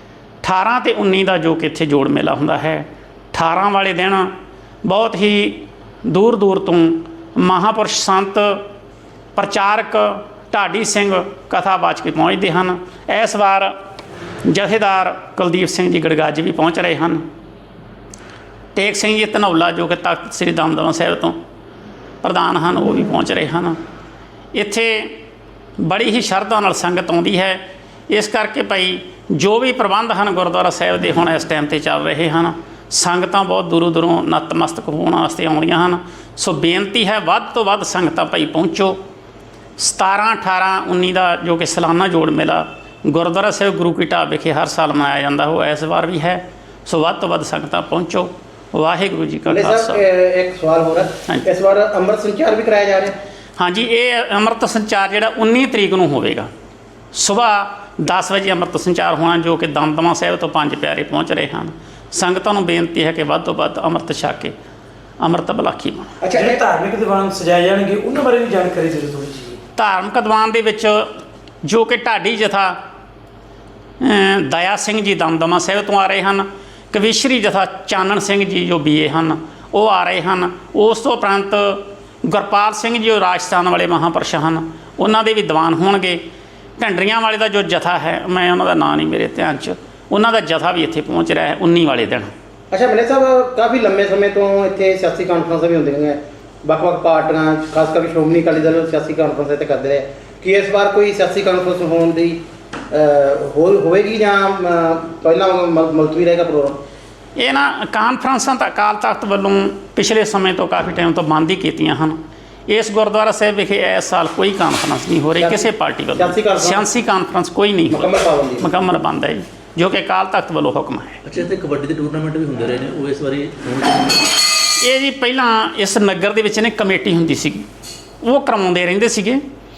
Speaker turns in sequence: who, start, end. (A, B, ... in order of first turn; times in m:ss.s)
0:00.4-0:08.7 A
0:09.4-0:13.7 A
0:14.4-0:17.2 A
0:18.8-0:21.4 A
0:22.2-0:23.8 A
0:24.5-0:25.2 A
0:25.8-0:39.0 A
0:39.8-0:50.0 A
0:49.5-0:53.2 B
0:53.6-0:56.5 A
0:57.1-1:04.6 A
1:05.2-1:06.4 A
1:06.2-1:09.6 C
1:09.8-1:12.8 A
1:14.0-1:26.2 A
1:26.8-1:32.3 A
1:32.7-1:42.4 B
1:42.9-1:46.8 B
1:47.4-2:01.2 A
1:55.4-1:56.9 B
1:57.9-1:58.7 B
2:01.2-2:04.3 D
2:04.8-2:07.7 A
2:08.2-2:09.4 A